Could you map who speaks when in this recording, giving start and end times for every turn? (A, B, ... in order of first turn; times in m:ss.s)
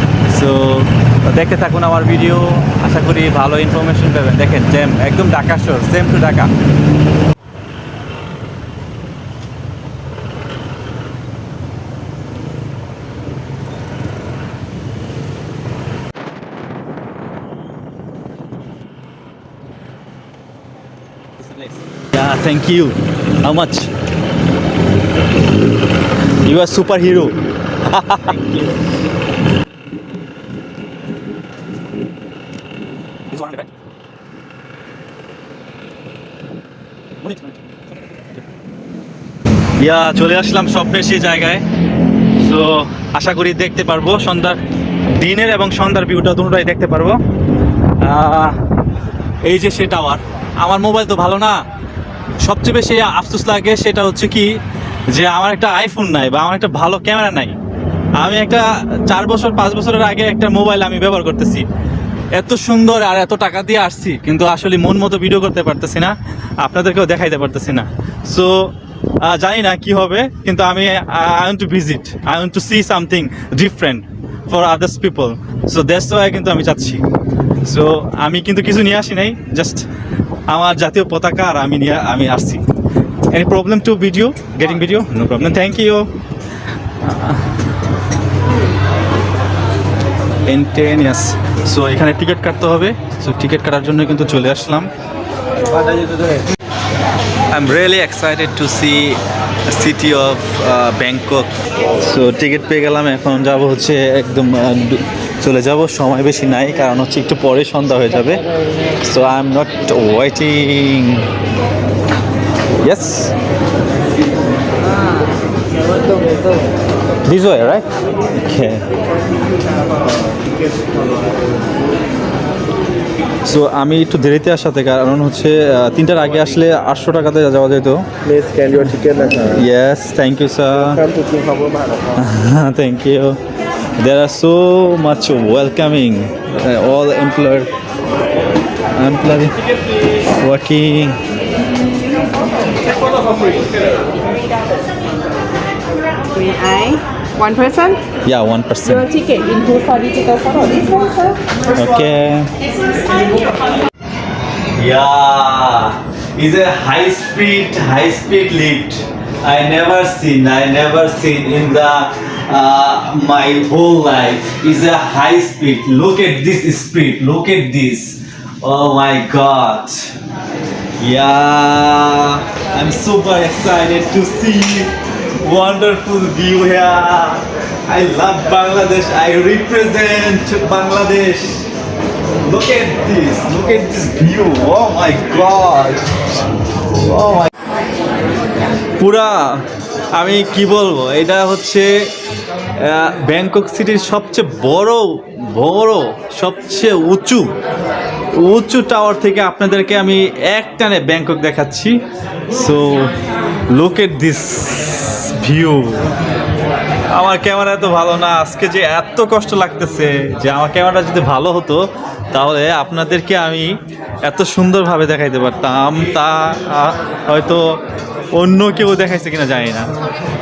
0:00.3-0:06.5 A
0:22.0-0:23.9 A
0:26.4-0:28.5 A
0:33.3-0:33.7 A
0:37.2-0:37.6 A
0:39.8-0:41.6 A
0:42.4-0:47.2 A
0:48.0-0:48.6 A
0:49.4-0:51.6 A
0:52.4-0:54.5 A
0:55.1-0:57.6 A
0:58.2-1:01.7 A
1:02.3-1:08.7 A
1:09.2-1:17.1 A
1:17.6-1:19.9 A
1:20.5-1:22.6 A
1:23.3-1:26.1 A
1:27.0-1:27.5 A
1:30.4-1:34.9 A
1:35.7-1:36.4 A
1:37.5-1:51.3 A
1:52.8-1:53.3 A
1:57.2-1:58.9 A
2:03.4-2:08.1 A
2:08.4-2:09.1 B
2:08.7-2:11.1 A
2:11.1-2:12.0 B
2:12.1-2:13.4 A
2:14.0-2:17.7 A
2:18.9-2:19.6 A
2:20.4-2:21.2 A
2:26.3-2:28.0 B
2:28.2-2:29.2 A
2:29.1-2:31.4 B
2:31.6-2:32.6 A
2:34.7-2:50.2 A
2:51.0-3:01.7 A
3:02.4-3:06.3 A
3:06.9-3:07.5 A
3:09.0-3:09.6 A
3:10.1-3:11.9 A
3:12.8-3:17.5 A
3:18.3-3:22.0 A
3:22.5-3:23.2 A
3:23.7-3:26.1 A
3:27.1-3:37.8 A
3:38.3-3:39.9 A